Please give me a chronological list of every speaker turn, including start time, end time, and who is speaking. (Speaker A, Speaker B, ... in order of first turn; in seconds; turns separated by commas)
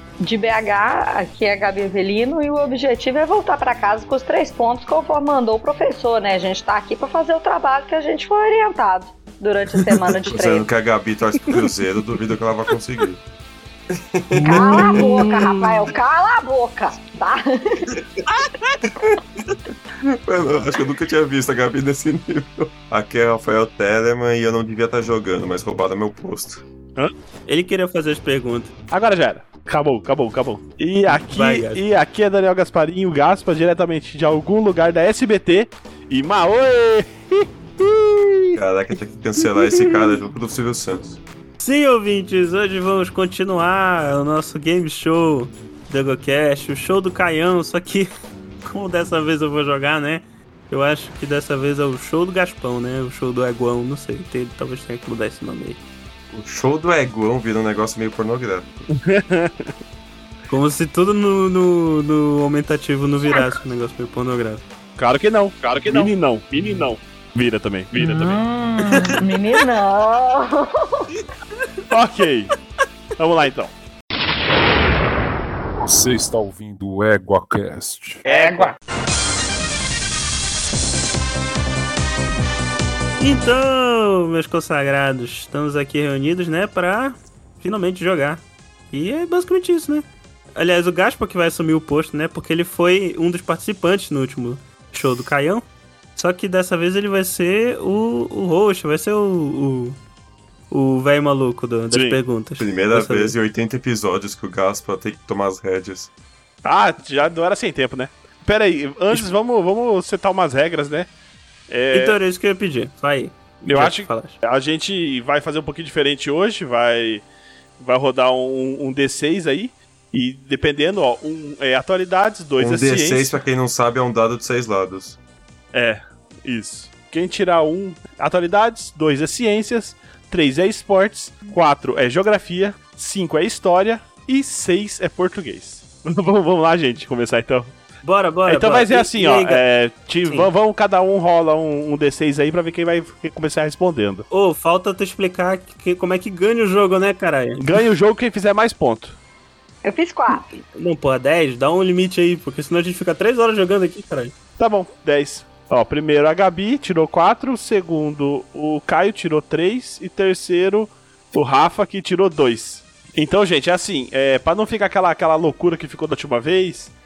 Speaker A: 0.2-10.7, Speaker B: 10.2-13.2, Speaker B: 13.9-15.2, Speaker A: 14.4-18.0, Speaker C: 15.0-15.8, Speaker C: 18.3-18.8, Speaker B: 20.1-26.6, Speaker C: 27.5-28.7, Speaker D: 28.9-38.6, Speaker C: 31.3-31.8, Speaker B: 38.5-41.2, Speaker C: 41.6-48.1, Speaker C: 48.6-55.8, Speaker B: 56.3-58.8, Speaker D: 58.9-59.7, Speaker C: 60.5-64.6, Speaker D: 65.0-68.4, Speaker A: 68.0-71.1, Speaker C: 68.8-69.2, Speaker C: 71.6-71.9, Speaker D: 71.9-72.5, Speaker D: 73.2-73.7, Speaker E: 75.8-78.2, Speaker D: 78.2-78.8, Speaker A: 78.3-78.7, Speaker C: 83.2-95.7, Speaker C: 96.2-100.0, Speaker C: 100.7-103.3, Speaker D: 101.9-102.2, Speaker B: 102.6-106.1, Speaker D: 106.6-111.1, Speaker D: 111.7-112.2, Speaker C: 111.9-114.4, Speaker D: 113.6-117.2, Speaker D: 117.8-123.4, Speaker B: 122.6-125.2, Speaker D: 125.7-137.7, Speaker C: 138.0-139.6, Speaker D: 138.5-144.3, Speaker C: 144.3-147.6, Speaker D: 147.6-149.2, Speaker A: 149.8-150.5, Speaker C: 150.7-154.3, Speaker D: 154.6-166.9